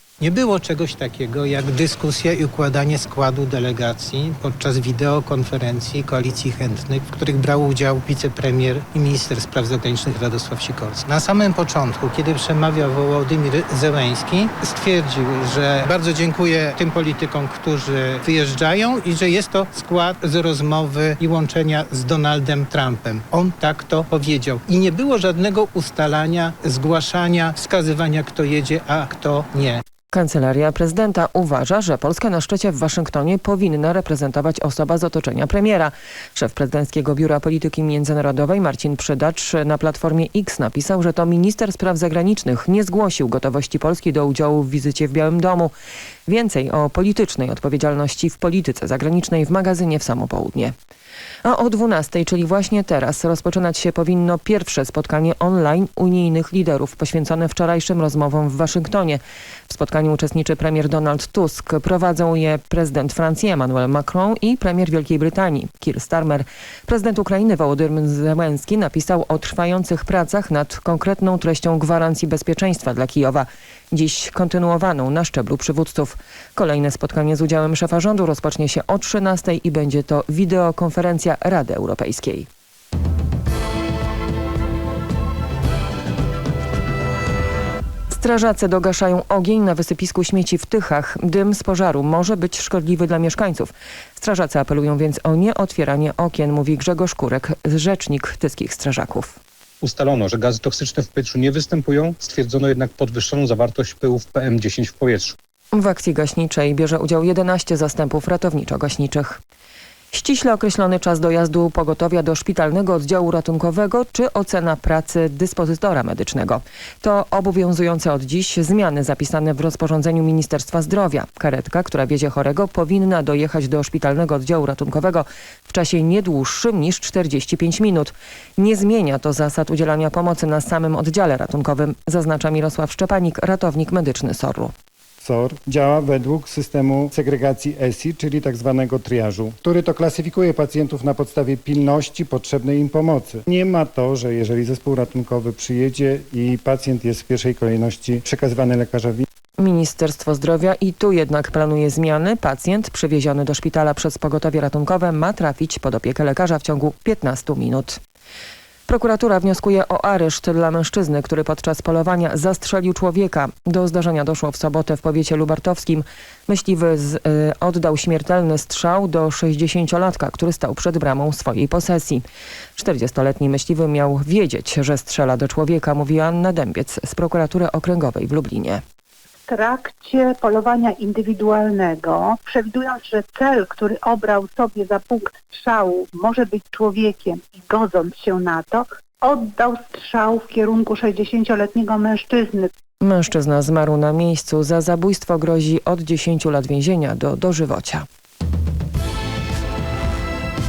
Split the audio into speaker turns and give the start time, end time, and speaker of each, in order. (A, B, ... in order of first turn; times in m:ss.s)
0:00.2-0:29.8 A
0:30.1-0:45.7 B
0:46.3-0:50.7 B
0:51.4-1:22.5 B
1:28.1-1:39.4 B
1:40.5-1:45.1 C
1:45.7-1:49.4 B
1:50.1-2:14.7 B
2:15.2-2:29.3 D
2:29.6-2:38.0 B
2:38.9-2:52.2 B
2:52.8-2:58.8 B
2:59.5-3:12.7 E
3:13.0-3:18.1 B